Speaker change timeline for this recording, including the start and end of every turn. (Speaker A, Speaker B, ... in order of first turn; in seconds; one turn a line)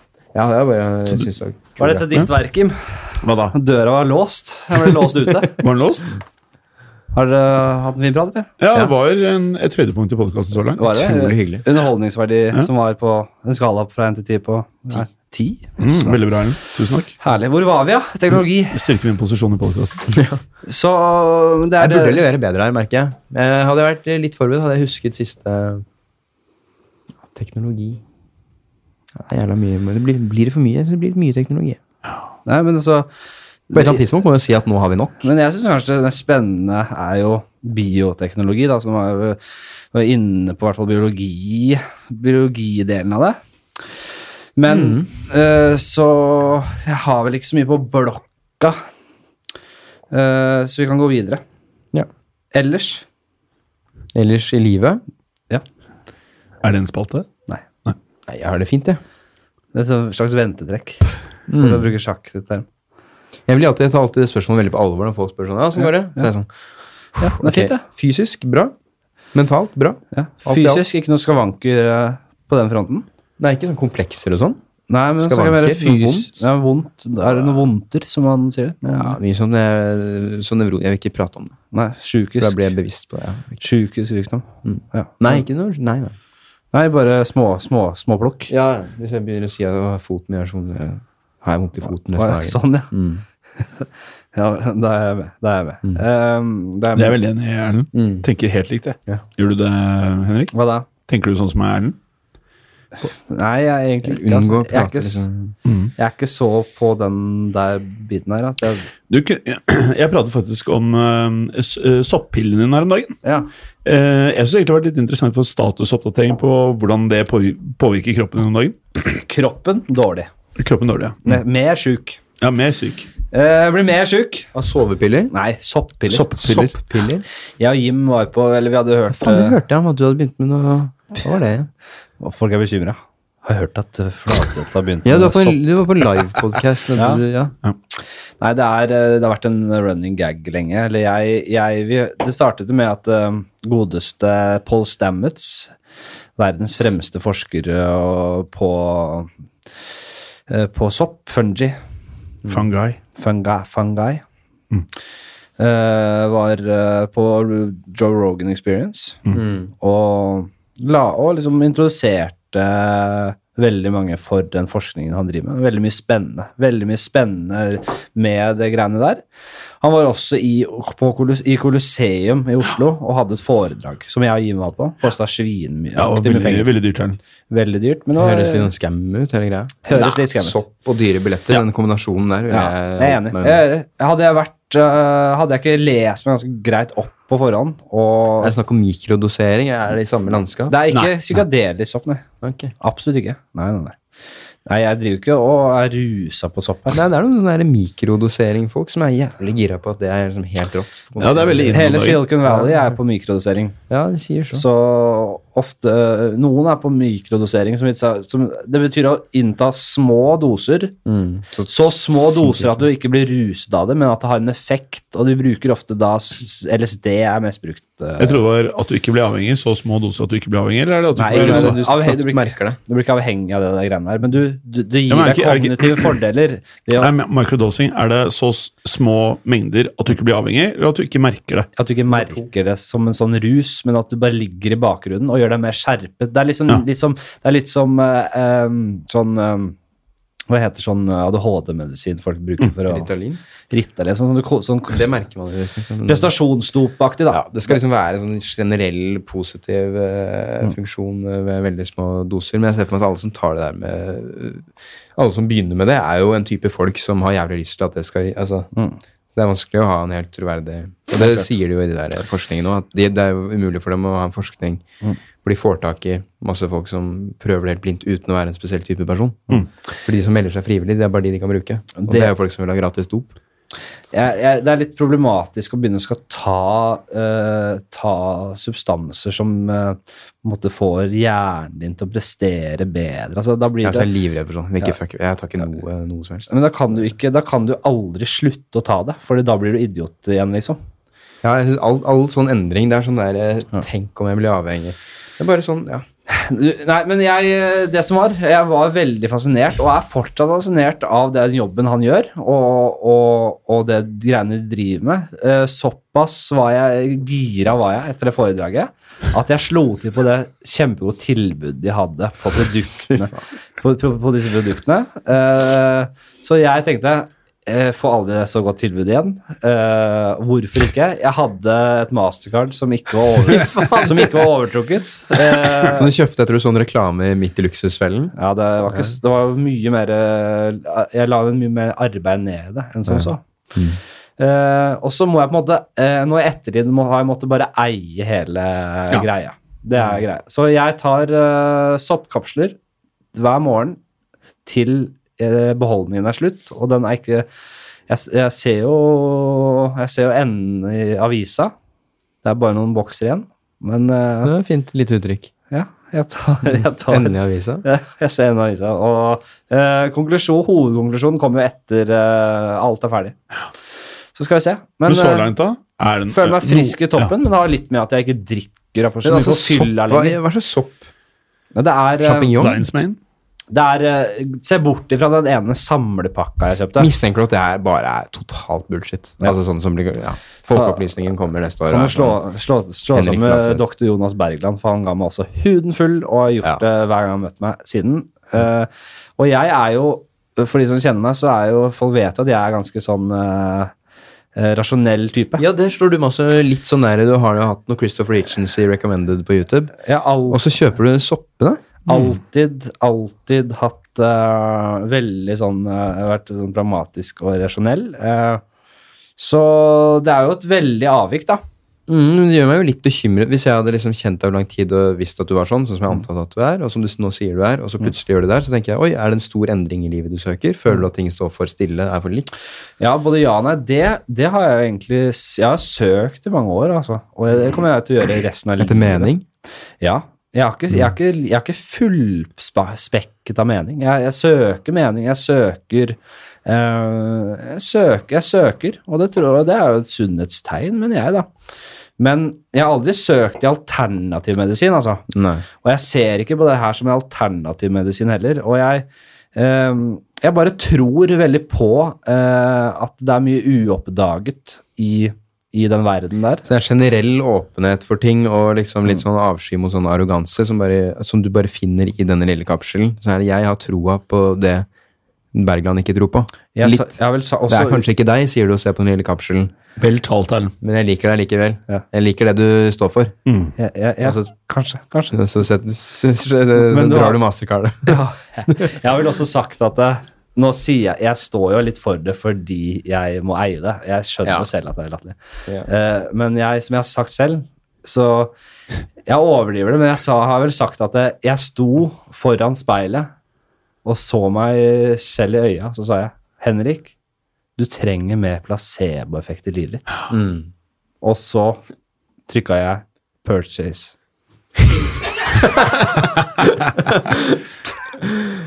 Speaker A: 0.3-2.1
Speaker B: 1.8-3.0
Speaker C: 3.2-3.5
Speaker B: 3.5-5.6
Speaker C: 5.4-6.2
Speaker B: 7.1-8.5
Speaker C: 8.6-11.0
Speaker B: 10.8-16.2
Speaker A: 10.9-11.6
Speaker C: 15.8-17.1
Speaker B: 17.2-18.8
Speaker C: 18.7-20.1
Speaker A: 20.1-20.4
Speaker B: 20.6-22.2
Speaker A: 21.8-25.8
Speaker A: 27.2-28.0
Speaker A: 29.1-31.8
Speaker B: 32.5-33.1
Speaker B: 33.7-34.0
Speaker A: 33.7-35.3
Speaker B: 35.2-39.4
Speaker B: 39.9-43.4
Speaker B: 44.5-48.8
Speaker A: 44.7-45.1
Speaker B: 50.1-51.4
Speaker B: 52.5-53.0
Speaker A: 54.1-55.0
Speaker C: 56.6-57.3
Speaker A: 58.3-59.0
Speaker B: 59.7-62.6
Speaker A: 61.5-61.9
Speaker A: 63.5-66.5
Speaker A: 67.2-68.7
Speaker B: 67.2-67.8
Speaker A: 69.3-70.8
Speaker B: 70.1-73.0
Speaker A: 73.4-74.6
Speaker B: 74.9-79.2
Speaker A: 75.2-76.5
Speaker A: 78.8-81.6
Speaker B: 81.7-82.7
Speaker A: 82.4-83.6
Speaker B: 83.6-85.4
Speaker A: 84.6-86.2
Speaker B: 86.7-88.5
Speaker A: 88.5-93.2
Speaker B: 92.2-92.9
Speaker B: 93.6-97.2
Speaker C: 96.9-100.5
Speaker A: 97.9-98.2
Speaker B: 100.5-100.9
Speaker C: 101.0-102.0
Speaker B: 103.0-105.2
Speaker A: 104.0-105.5
Speaker C: 105.7-105.9
Speaker B: 106.0-108.9
Speaker C: 109.1-113.2
Speaker B: 113.2-113.5
Speaker C: 113.8-118.8
Speaker B: 119.0-120.3
Speaker C: 120.5-121.4
Speaker B: 121.2-122.2
Speaker C: 122.4-123.1
Speaker B: 123.3-124.5
Speaker A: 124.5-125.3
Speaker B: 125.3-126.2
Speaker C: 126.1-126.8
Speaker A: 126.3-127.2
Speaker B: 127.6-129.6
Speaker A: 129.1-131.7
Speaker B: 132.2-135.6
Speaker A: 135.0-137.5
Speaker B: 136.9-137.2
Speaker B: 138.4-145.7
Speaker B: 146.4-149.3
Speaker B: 150.5-151.8
Speaker C: 152.5-153.0
Speaker B: 153.2-154.2
Speaker B: 155.6-159.2
Speaker A: 159.3-159.7
Speaker B: 159.8-169.2
Speaker B: 169.8-176.7
Speaker C: 175.9-177.2
Speaker B: 177.5-178.7
Speaker A: 178.2-183.6
Speaker B: 179.8-180.6
Speaker B: 182.5-188.5
Speaker A: 188.4-190.8
Speaker B: 190.7-192.2
Speaker A: 192.4-192.7
Speaker B: 192.8-194.0
Speaker B: 194.7-197.0
Speaker A: 196.9-201.9
Speaker C: 201.2-202.2
Speaker B: 201.6-203.8
Speaker A: 202.4-202.9
Speaker A: 203.9-204.6
Speaker B: 204.5-210.9
Speaker A: 211.1-212.8
Speaker B: 211.7-218.4
Speaker C: 218.2-221.8
Speaker B: 221.2-227.1
Speaker A: 221.3-222.8
Speaker C: 225.1-226.1
Speaker C: 227.0-231.7
Speaker B: 231.8-239.8
Speaker B: 240.5-243.1
Speaker A: 242.8-243.4
Speaker B: 243.7-245.1
Speaker A: 244.9-246.3
Speaker B: 246.1-247.8
Speaker A: 247.3-258.7
Speaker A: 259.3-264.8
Speaker B: 261.1-261.4
Speaker A: 265.4-273.4
Speaker B: 272.0-272.3
Speaker B: 274.1-284.1
Speaker A: 283.8-286.5
Speaker B: 286.5-290.8
Speaker A: 291.4-296.0
Speaker B: 296.3-326.1
Speaker A: 323.5-324.3
Speaker A: 325.9-328.3
Speaker B: 328.4-333.4
Speaker A: 333.1-334.0
Speaker B: 334.4-342.8
Speaker B: 343.3-344.0
Speaker B: 344.6-347.5
Speaker B: 348.1-351.7
Speaker B: 352.4-354.5
Speaker A: 354.4-355.5
Speaker B: 355.7-363.4
Speaker A: 356.7-357.8
Speaker B: 364.3-365.5
Speaker C: 365.1-367.3
Speaker B: 366.3-370.4
Speaker A: 369.2-371.1
Speaker B: 371.7-372.5
Speaker A: 372.2-372.9
Speaker C: 372.6-373.2
Speaker B: 373.7-377.1
Speaker A: 377.0-382.4
Speaker B: 380.7-381.0
Speaker B: 381.9-393.9
Speaker A: 383.1-383.8
Speaker B: 394.5-395.6
Speaker A: 395.6-399.9
Speaker B: 400.0-400.7
Speaker A: 400.5-402.0
Speaker B: 402.1-408.6
Speaker B: 409.4-411.6
Speaker A: 412.1-422.5
Speaker B: 423.0-429.3
Speaker A: 428.8-429.4
Speaker B: 430.0-441.5
Speaker B: 442.2-445.3
Speaker A: 445.3-445.6
Speaker B: 445.8-456.6
Speaker A: 456.6-464.9
Speaker A: 465.5-467.1
Speaker B: 466.7-468.0
Speaker A: 467.7-469.8
Speaker C: 470.0-470.7
Speaker A: 470.8-473.3
Speaker C: 473.4-473.7
Speaker B: 473.8-475.4
Speaker A: 474.2-474.5
Speaker A: 475.3-478.2
Speaker B: 476.8-477.4
Speaker B: 478.0-488.5
Speaker B: 489.3-493.3
Speaker B: 494.0-497.1
Speaker B: 497.8-500.0
Speaker A: 500.3-500.7
Speaker B: 501.2-501.8
Speaker B: 502.5-504.1
Speaker A: 505.6-506.0
Speaker A: 507.1-507.6
Speaker A: 508.2-508.5